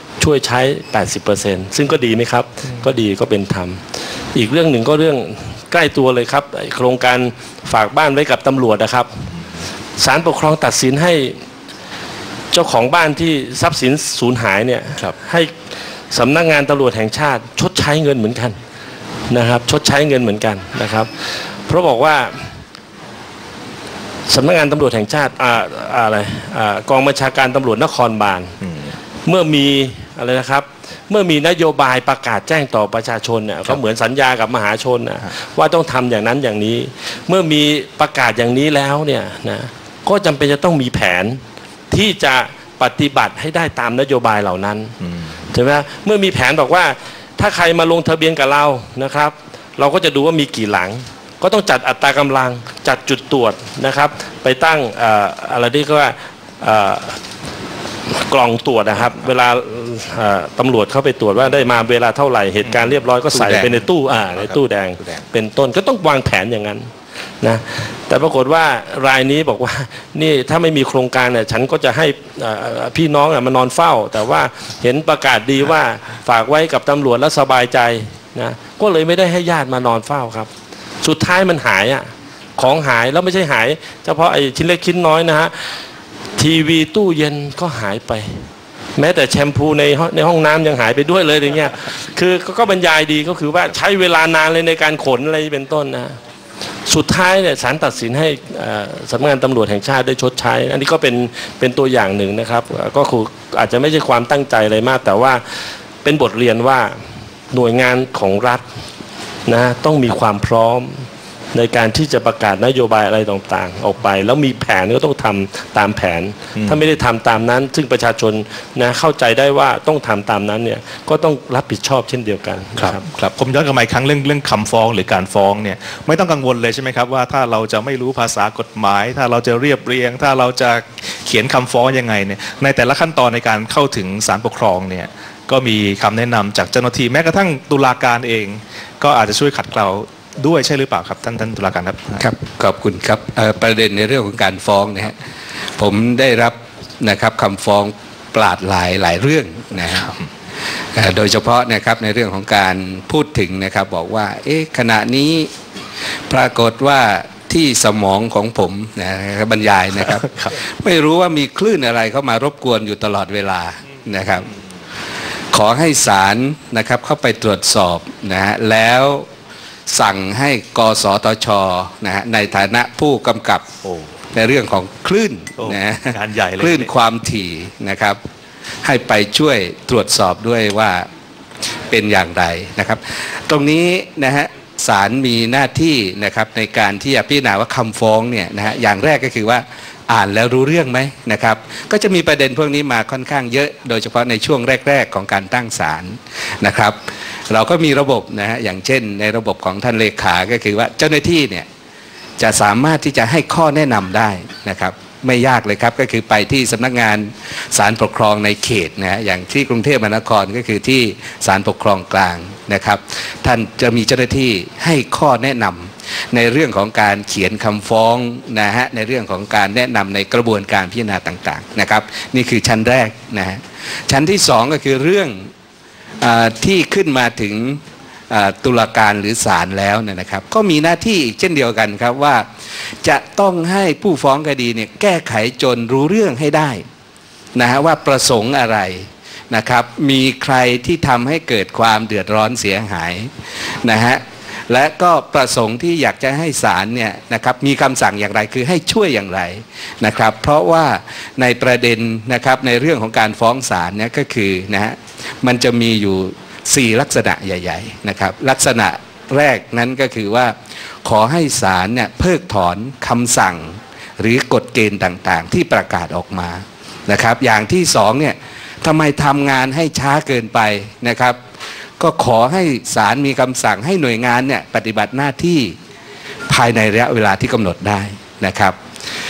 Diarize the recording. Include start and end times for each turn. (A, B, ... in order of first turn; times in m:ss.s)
0:00.2-0:09.3 A
0:10.0-0:11.4 A
0:12.5-0:15.6 A
0:16.1-0:18.6 A
0:19.3-0:22.6 A
0:24.3-0:28.6 A
0:28.6-0:28.9 B
0:29.2-0:44.9 A
0:45.0-0:45.3 B
0:45.5-0:57.2 A
0:58.1-1:06.9 A
1:02.7-1:05.2 B
1:07.4-1:20.5 A
1:21.0-1:25.8 A
1:26.4-1:36.2 A
1:36.8-1:48.6 A
1:49.5-2:03.0 A
2:02.8-2:22.2 B
2:22.2-2:25.2 C
2:25.8-2:30.2 C
2:30.9-2:35.5 C
2:36.3-2:44.5 C
2:40.1-2:40.6 B
2:45.5-2:49.3 C
2:49.9-2:53.7 C
2:54.3-2:58.2 C
2:55.6-2:56.9 B
2:58.8-3:01.1 C
3:01.9-3:17.0 C
3:17.5-3:21.7 C
3:22.4-3:45.5 C
3:46.2-3:56.8 C
3:57.5-4:31.4 C
4:32.0-4:35.8 C
4:36.5-4:38.8 C